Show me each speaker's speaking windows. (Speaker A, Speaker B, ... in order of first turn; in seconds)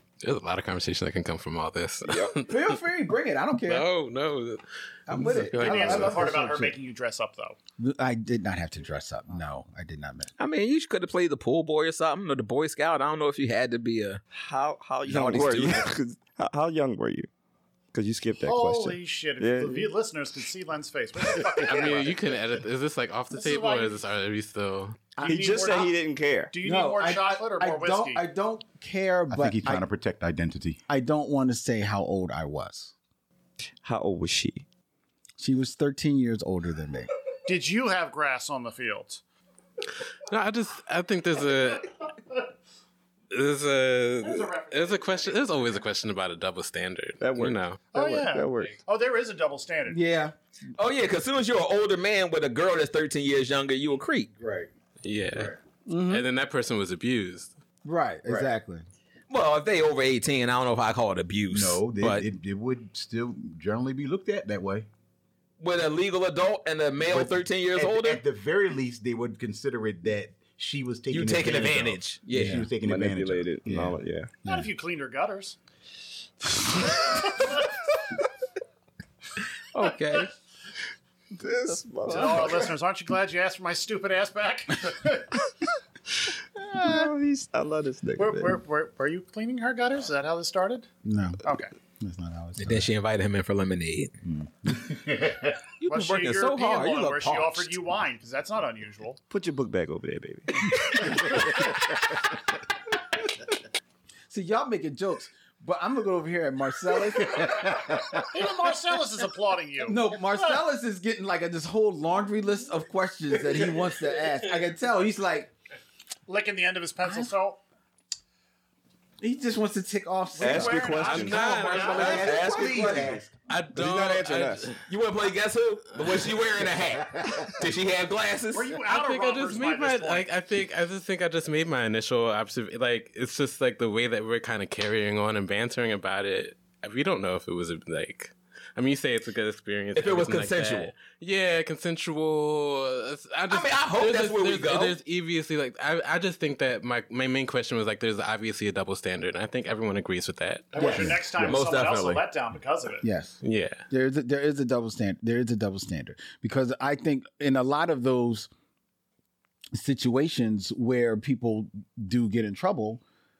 Speaker A: 0.2-2.7, 3.7-6.2, 21.6-25.1, 40.2-42.0, 43.3-47.8, 55.0-57.5, 121.0-122.6, 123.5-124.8, 128.9-150.9, 153.4-153.8
Speaker B: 2.4-3.9, 5.1-6.7, 7.8-10.3, 26.6-29.9, 30.9-32.9, 35.4-37.1, 49.9-50.3, 55.9-56.3, 57.8-58.8, 72.3-72.7, 73.7-74.7, 91.0-91.4, 92.0-92.9, 104.3-108.2, 109.8-115.5, 117.0-117.3, 119.2-121.0, 122.0-123.2, 150.8-151.3, 153.0-153.4, 153.9-158.5, 159.7-163.0
Speaker C: 5.5-7.5, 18.4-22.3, 23.3-24.0, 25.2-28.2, 37.5-39.2, 44.2-45.8, 47.9-50.0, 74.4-75.5, 77.0-77.6, 82.0-85.4, 88.2-90.9, 91.4-91.7, 95.9-99.2, 108.3-110.5, 116.3-117.6, 120.4-122.3, 128.5-130.3, 150.7-153.1
Speaker D: 10.4-14.2, 15.1-15.7, 50.7-54.3, 59.3-62.3, 65.6-68.2, 71.1-72.7, 79.7-80.3, 92.6-94.1, 95.8-97.7, 121.9-123.1, 124.8-128.7, 139.9-140.9, 143.5-144.9, 151.4-152.2
Speaker E: 14.3-17.3, 17.9-19.9, 25.2-26.5, 33.8-34.6, 47.2-48.7, 72.8-74.4, 81.4-82.7, 86.6-88.6, 99.3-101.1, 120.4-121.7, 123.7-124.7
Speaker F: 15.4-15.7, 29.3-30.8, 54.4-54.7, 61.5-64.9, 67.0-73.6, 94.2-95.5, 121.9-123.3, 150.8-151.5